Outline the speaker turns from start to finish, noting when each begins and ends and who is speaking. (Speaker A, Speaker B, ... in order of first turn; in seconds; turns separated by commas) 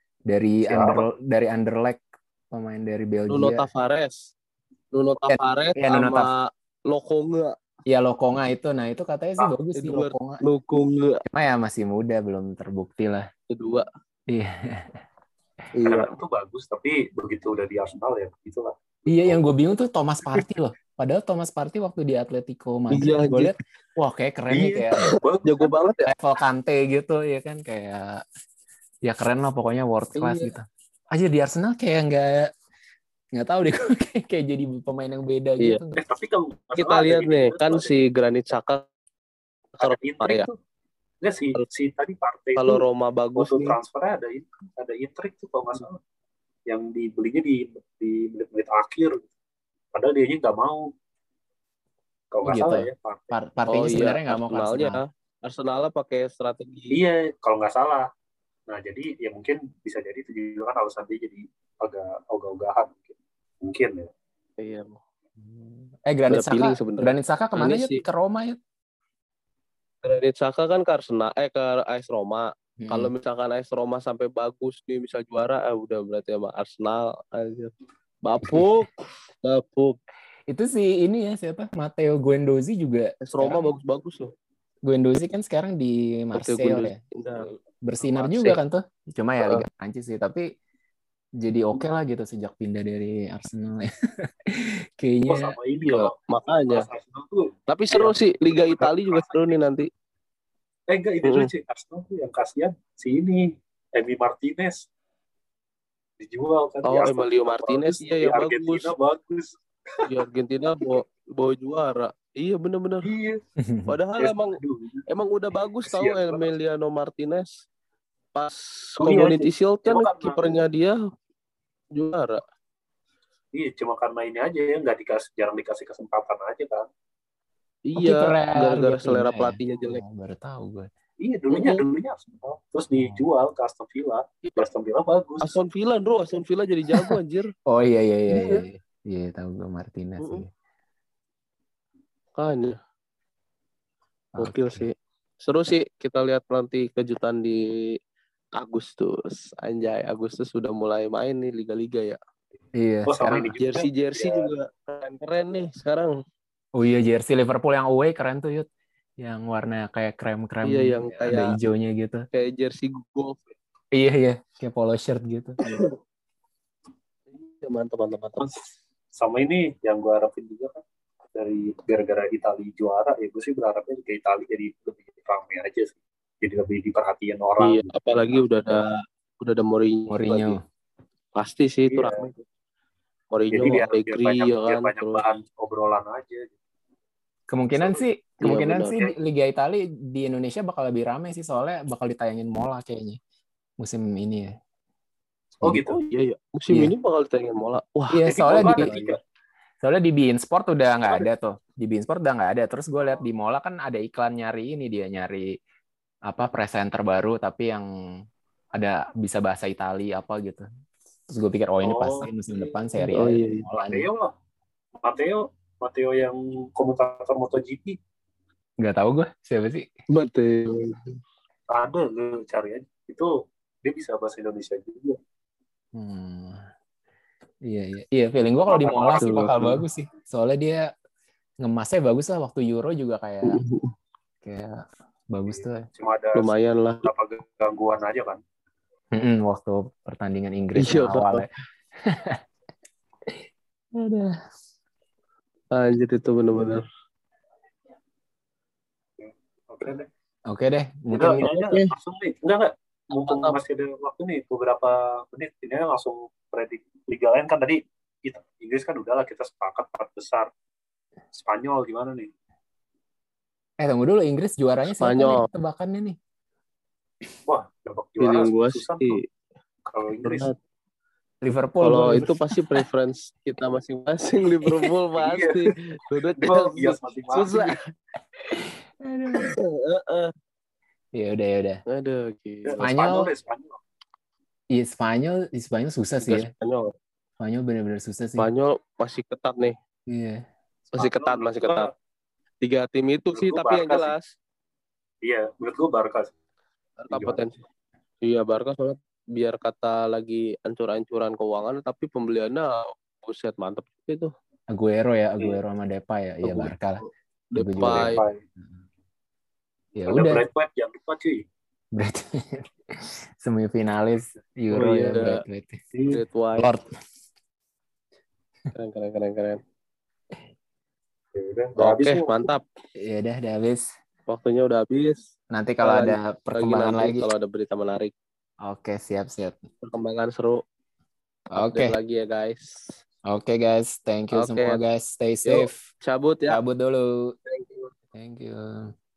Speaker A: 0.3-3.6, Speaker B: 0.7-1.1, Speaker C: 3.3-4.3, Speaker C: 4.9-7.5, Speaker A: 5.3-6.3, Speaker A: 7.9-10.4, Speaker C: 9.7-11.2, Speaker A: 11.3-13.3, Speaker C: 13.5-13.8, Speaker A: 14.3-15.0, Speaker C: 15.7-16.1, Speaker B: 15.9-19.4, Speaker A: 19.1-25.0, Speaker C: 22.9-23.5, Speaker C: 24.6-26.1, Speaker B: 24.6-25.7, Speaker A: 26.1-28.2, Speaker A: 29.0-32.5, Speaker C: 30.1-30.5, Speaker A: 33.3-36.0, Speaker B: 35.9-37.9, Speaker C: 36.8-38.8, Speaker C: 39.8-40.5, Speaker B: 39.8-40.5, Speaker B: 41.2-42.8, Speaker C: 42.6-43.8, Speaker B: 43.4-46.0, Speaker B: 46.7-49.3, Speaker B: 49.9-50.9, Speaker B: 52.3-53.3, Speaker A: 52.4-55.0, Speaker C: 53.7-57.0, Speaker B: 56.9-58.1, Speaker B: 58.7-64.1, Speaker C: 64.6-65.0, Speaker A: 65.4-68.6, Speaker C: 66.3-68.0, Speaker C: 70.0-77.7, Speaker A: 72.8-73.1, Speaker C: 78.2-80.0, Speaker A: 78.4-78.7, Speaker A: 80.5-83.6, Speaker C: 83.2-84.3, Speaker A: 84.8-87.0, Speaker C: 86.3-87.5, Speaker A: 87.8-90.5, Speaker C: 88.1-88.6, Speaker A: 91.4-95.5, Speaker B: 95.3-99.5, Speaker C: 95.8-96.9, Speaker C: 97.7-99.9, Speaker B: 100.9-104.8, Speaker C: 101.2-101.5, Speaker B: 106.2-110.0, Speaker C: 106.8-108.9, Speaker C: 110.1-113.1, Speaker B: 113.0-113.4, Speaker A: 113.6-113.9, Speaker C: 113.9-117.6, Speaker B: 114.2-115.0, Speaker B: 115.8-116.5, Speaker C: 118.3-121.0, Speaker B: 119.0-120.4, Speaker C: 122.0-122.4, Speaker B: 123.5-126.9, Speaker C: 127.9-130.0, Speaker A: 128.0-130.9, Speaker B: 131.2-135.6, Speaker C: 131.5-131.8, Speaker A: 132.9-133.2, Speaker C: 135.4-137.5, Speaker A: 137.7-140.5, Speaker C: 138.3-138.6, Speaker C: 140.2-140.4, Speaker C: 142.3-142.8, Speaker A: 144.3-144.9, Speaker C: 144.4-147.9, Speaker C: 148.6-152.2, Speaker A: 152.7-153.5, Speaker B: 153.1-154.5, Speaker C: 153.6-156.2, Speaker A: 156.7-158.7, Speaker A: 159.2-162.2, Speaker C: 160.6-161.6, Speaker C: 162.3-163.4, Speaker A: 163.9-165.6, Speaker C: 165.6-165.9, Speaker C: 167.3-168.5, Speaker B: 169.1-170.8, Speaker B: 171.3-178.4, Speaker C: 177.6-180.6, Speaker A: 180.1-180.6, Speaker C: 181.3-182.4, Speaker B: 181.9-182.3, Speaker C: 183.3-185.2, Speaker B: 183.5-186.5, Speaker A: 187.5-193.2, Speaker B: 187.8-188.1, Speaker C: 188.4-188.9, Speaker A: 193.8-194.5, Speaker A: 195.6-195.9, Speaker B: 195.6-196.0, Speaker C: 195.7-199.2, Speaker A: 198.1-199.0, Speaker B: 198.2-199.2, Speaker A: 199.8-205.6, Speaker A: 206.2-210.7, Speaker A: 211.3-214.1, Speaker B: 211.8-212.3, Speaker C: 213.0-213.7, Speaker B: 213.8-214.3, Speaker B: 215.0-218.0, Speaker A: 218.8-219.9, Speaker C: 220.1-221.2, Speaker B: 221.7-223.3, Speaker B: 223.8-225.2, Speaker A: 225.9-226.7, Speaker A: 227.7-230.9, Speaker B: 228.7-229.7, Speaker C: 229.2-229.8, Speaker A: 231.6-233.6, Speaker C: 233.5-233.9, Speaker A: 234.4-235.8, Speaker B: 235.4-236.5, Speaker C: 236.3-237.0, Speaker B: 237.0-238.4, Speaker A: 239.1-241.5, Speaker C: 240.8-241.5, Speaker A: 242.0-242.4, Speaker A: 243.9-244.4, Speaker C: 245.7-246.8, Speaker B: 249.2-250.1, Speaker A: 250.5-251.5, Speaker C: 251.1-251.9, Speaker B: 251.1-260.5, Speaker C: 253.1-253.6, Speaker B: 261.3-262.3, Speaker A: 263.8-266.2, Speaker C: 265.0-265.5, Speaker B: 267.5-269.2, Speaker C: 268.2-269.2, Speaker B: 269.9-270.5, Speaker C: 270.1-270.5, Speaker A: 271.4-272.8, Speaker C: 271.8-277.8, Speaker B: 275.2-275.7, Speaker B: 276.4-277.7, Speaker A: 279.0-279.5, Speaker C: 279.4-280.3, Speaker A: 281.1-281.8, Speaker C: 281.9-282.8, Speaker B: 282.6-283.8, Speaker A: 282.8-283.3, Speaker A: 284.7-286.5, Speaker C: 286.2-286.9, Speaker A: 287.4-288.5, Speaker C: 288.4-289.8, Speaker A: 290.1-290.4, Speaker C: 290.9-291.9, Speaker B: 290.9-291.9, Speaker C: 292.6-294.3, Speaker B: 293.3-294.1, Speaker B: 295.2-296.3, Speaker C: 297.0-297.6, Speaker B: 297.1-297.4, Speaker C: 298.2-304.3, Speaker A: 304.7-307.0, Speaker C: 306.4-308.2, Speaker A: 307.6-308.7, Speaker B: 307.8-308.4, Speaker A: 309.9-310.4, Speaker B: 310.1-311.4, Speaker A: 311.9-315.8, Speaker C: 314.7-315.4, Speaker B: 315.9-316.2, Speaker C: 316.1-316.8, Speaker A: 316.6-316.9, Speaker C: 318.7-319.6, Speaker B: 321.3-322.4, Speaker C: 321.8-322.6, Speaker A: 323.0-323.9, Speaker C: 324.3-325.3, Speaker A: 325.5-327.3, Speaker C: 325.8-328.1, Speaker A: 328.6-329.6, Speaker C: 329.8-330.6, Speaker A: 331.5-332.0, Speaker C: 331.6-333.0, Speaker A: 333.3-335.8, Speaker C: 334.3-334.8, Speaker C: 335.4-336.6, Speaker A: 336.5-337.4, Speaker C: 337.5-337.9, Speaker A: 338.1-338.9